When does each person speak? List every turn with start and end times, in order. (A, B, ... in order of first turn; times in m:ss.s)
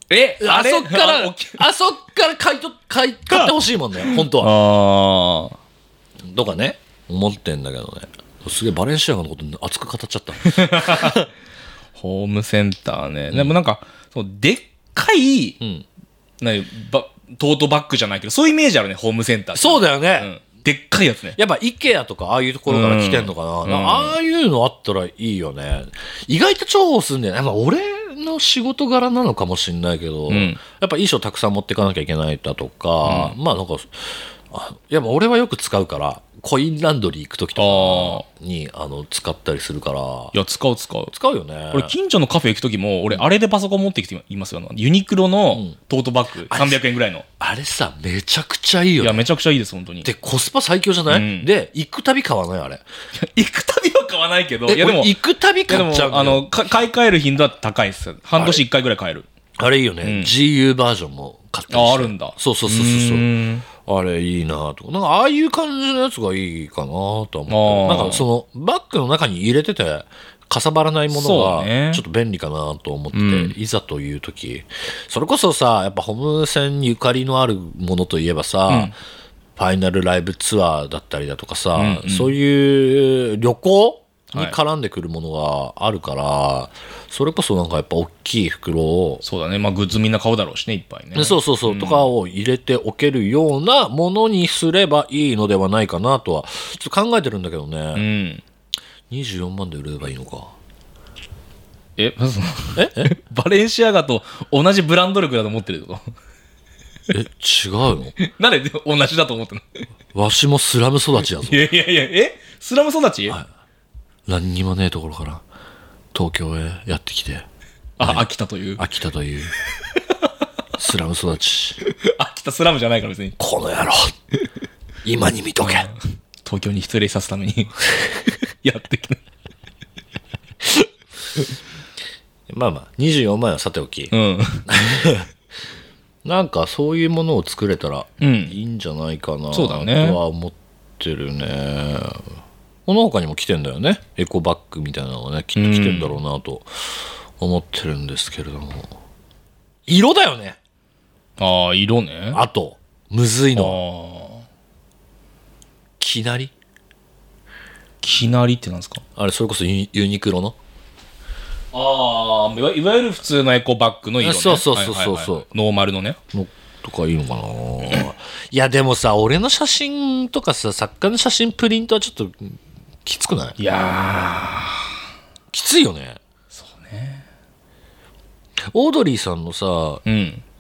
0:00.1-0:01.6 A
0:00.4-0:04.5 B
0:03.3-0:05.6 A
0:06.3-0:11.3 B
0:10.4-0:11.2 A
0:12.0-0:15.6 A
0:16.4-0:21.4 A
0:19.6-0:20.3 B
0:21.4-0:33.9 B
0:22.7-0:24.2 A
0:30.3-0:30.6 A
0:33.0-0:33.4 A
0:34.5-0:40.4 B
0:37.6-0:38.2 A
0:40.3-0:41.1 A
0:41.1-0:42.0 B
0:41.7-0:47.2 A
0:46.5-0:46.8 B
0:47.4-0:49.3 B
0:49.0-0:50.1 A
0:50.0-0:52.8 B
0:51.1-0:51.5 A
0:53.2-0:55.2 A
0:54.7-0:56.5 B
0:55.7-0:59.2 A
0:58.4-0:58.6 B
0:59.6-1:03.3 B
1:00.0-1:00.4 A
1:01.7-1:03.7 A
1:03.8-1:18.9 B
1:07.5-1:08.2 A
1:11.1-1:12.0 A
1:13.1-1:13.5 A
1:18.7-1:18.9 A
1:19.6-1:29.2 B
1:21.8-1:22.3 A
1:29.2-1:32.1 A
1:31.2-1:38.1 B
1:38.0-1:38.4 A
1:39.1-1:40.5 B
1:42.0-1:46.1 A
1:42.8-1:43.1 B
1:47.1-1:48.2 B
1:48.2-1:49.6 A
1:50.1-1:51.7 B
1:51.4-1:53.4 A
1:54.3-1:55.4 B
1:56.1-1:57.5 B
1:58.0-1:58.2 B
1:58.0-1:58.8 A
1:58.8-1:59.6 B
2:00.8-2:01.8 B
2:01.8-2:03.4 A
2:03.4-2:04.1 B
2:05.0-2:05.9 B
2:05.6-2:07.9 A
2:08.6-2:09.2 A
2:12.5-2:14.1 B
2:14.1-2:14.6 A
2:14.7-2:15.3 B
2:16.2-2:22.2 B
2:18.2-2:18.6 A
2:19.5-2:20.2 A
2:22.9-2:26.7 B
2:25.6-2:26.2 A
2:27.4-2:28.9 B
2:29.9-2:30.6 B
2:31.4-2:32.4 A
2:32.3-2:33.8 B
2:33.6-2:34.5 A
2:36.0-2:36.5 B
2:38.0-2:39.0 A
2:39.2-2:40.6 B
2:41.7-2:46.2 A
2:44.2-2:45.4 B
2:46.3-2:53.6 B
2:53.6-2:54.9 A
2:55.5-2:56.2 B
2:56.5-2:57.2 A
2:58.7-3:00.0 B
3:00.1-3:00.4 A